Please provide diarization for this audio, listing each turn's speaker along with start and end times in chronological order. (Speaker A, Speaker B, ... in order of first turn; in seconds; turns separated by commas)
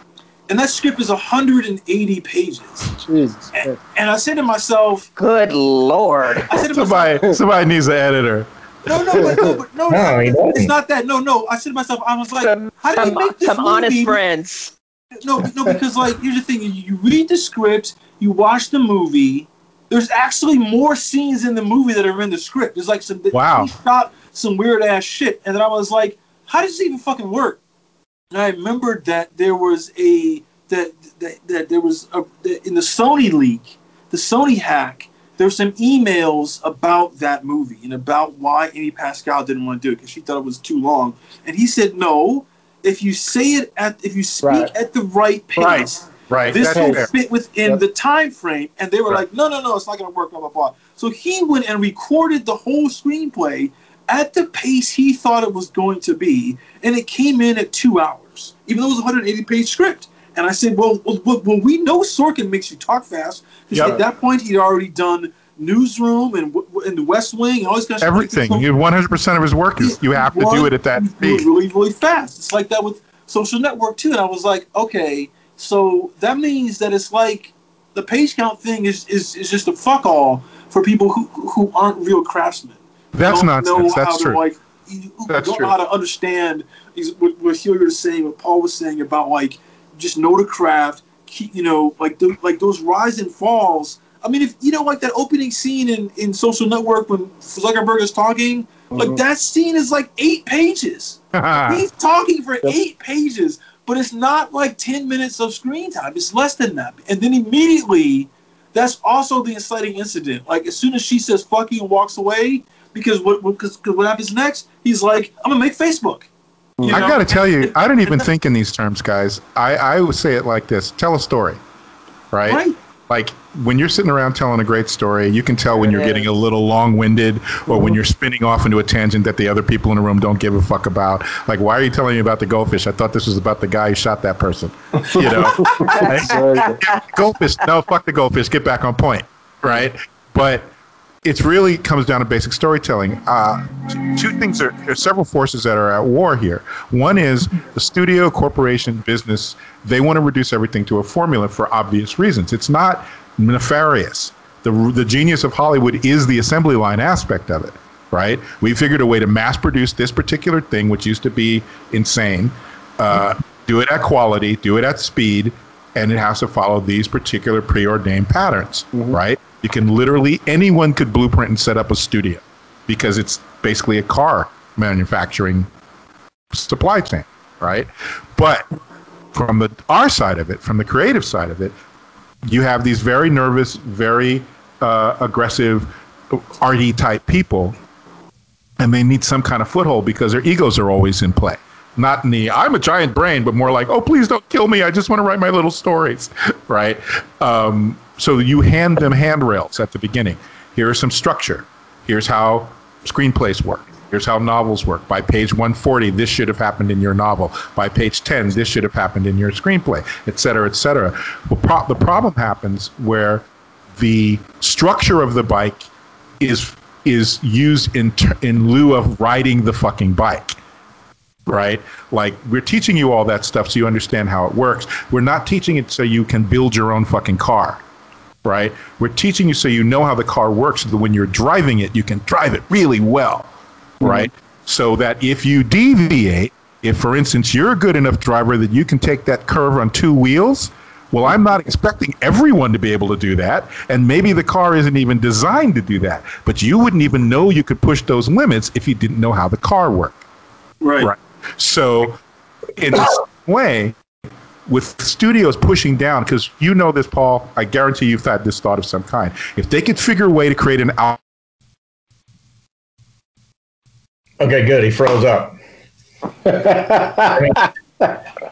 Speaker A: 0.5-3.0, Speaker B: 3.0-3.8, Speaker A: 3.5-5.1, Speaker C: 5.2-6.5, Speaker A: 6.5-7.2, Speaker D: 6.7-9.2, Speaker A: 8.8-14.2, Speaker B: 9.1-9.6, Speaker E: 9.9-10.7, Speaker C: 12.4-14.7, Speaker A: 15.2-27.6, Speaker D: 23.3-23.7, Speaker A: 28.3-68.7, Speaker B: 44.4-44.7, Speaker D: 45.6-47.1, Speaker B: 46.6-47.1, Speaker D: 63.7-64.0, Speaker D: 68.0-71.5, Speaker A: 69.8-116.3, Speaker D: 83.1-84.4, Speaker D: 85.3-85.7, Speaker B: 98.9-99.2, Speaker D: 101.3-101.8, Speaker B: 116.8-117.1, Speaker A: 116.8-118.2, Speaker D: 116.9-121.6, Speaker D: 122.3-140.7, Speaker A: 122.5-122.8, Speaker B: 127.7-128.0, Speaker B: 135.1-136.8, Speaker D: 141.2-175.7, Speaker D: 176.5-178.7, Speaker D: 179.3-181.7, Speaker D: 182.5-187.8, Speaker D: 188.8-213.4, Speaker D: 214.0-215.9, Speaker D: 216.4-220.6, Speaker D: 221.5-227.8, Speaker D: 228.4-233.5, Speaker D: 234.0-250.2, Speaker B: 234.0-234.3, Speaker A: 250.8-251.1, Speaker D: 251.0-252.2, Speaker D: 252.8-253.9, Speaker D: 254.7-261.2, Speaker E: 264.4-265.6, Speaker B: 266.4-268.1, Speaker E: 267.3-267.7